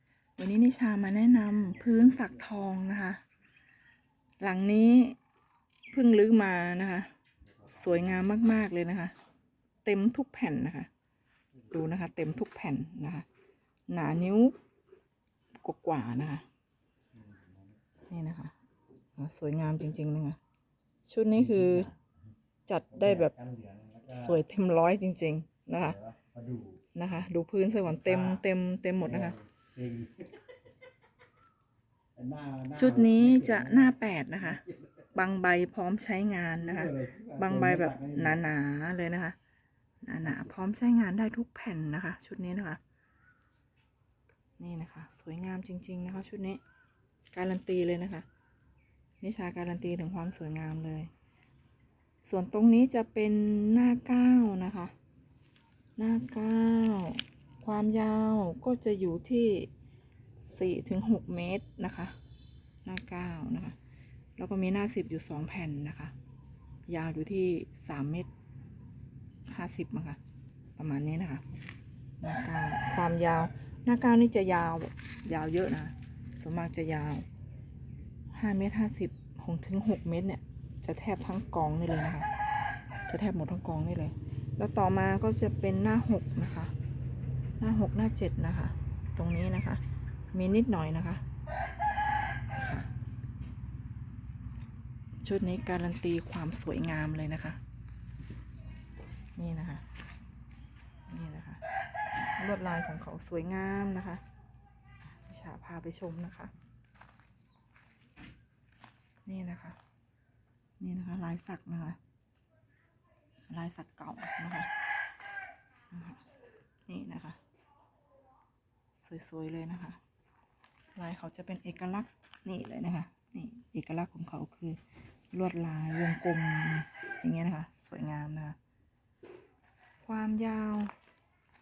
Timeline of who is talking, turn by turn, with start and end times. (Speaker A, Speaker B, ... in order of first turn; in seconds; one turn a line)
Speaker A: 0.4-3.2
Speaker A: 4.4-5.2
Speaker A: 5.9-7.1
Speaker A: 7.7-9.1
Speaker A: 9.8-10.9
Speaker A: 11.7-13.3
Speaker A: 13.9-14.6
Speaker A: 15.6-16.4
Speaker B: 17.1-17.8
Speaker A: 18.1-18.5
Speaker A: 19.2-20.4
Speaker A: 21.1-21.9
Speaker B: 21.4-22.0
Speaker A: 22.7-23.3
Speaker B: 23.0-24.4
Speaker A: 24.1-26.0
Speaker B: 25.9-26.8
Speaker A: 26.9-29.4
Speaker B: 28.0-28.4
Speaker B: 29.0-30.3
Speaker B: 32.1-33.9
Speaker A: 32.8-39.4
Speaker B: 36.6-38.4
Speaker A: 40.0-42.8
Speaker A: 44.6-46.6
Speaker A: 47.3-48.3
Speaker A: 49.2-51.1
Speaker A: 52.2-54.9
Speaker A: 56.0-59.7
Speaker A: 60.4-62.1
Speaker A: 62.9-63.8
Speaker A: 64.4-66.1
Speaker A: 66.9-68.3
Speaker A: 69.5-70.2
Speaker A: 70.8-71.5
Speaker A: 72.2-77.3
Speaker A: 78.3-82.3
Speaker A: 83.1-86.7
Speaker A: 87.6-89.8
Speaker A: 90.3-91.2
Speaker A: 92.5-92.9
Speaker A: 95.2-97.6
Speaker A: 99.4-99.8
Speaker A: 101.1-101.6
Speaker A: 102.4-104.2
Speaker A: 105.1-106.5
Speaker A: 109.2-109.8
Speaker A: 110.8-112.0
Speaker A: 113.5-114.7
Speaker A: 115.9-116.2
Speaker A: 116.9-117.4
Speaker A: 119.0-120.0
Speaker A: 121.0-124.8
Speaker A: 125.3-128.6
Speaker A: 130.0-130.9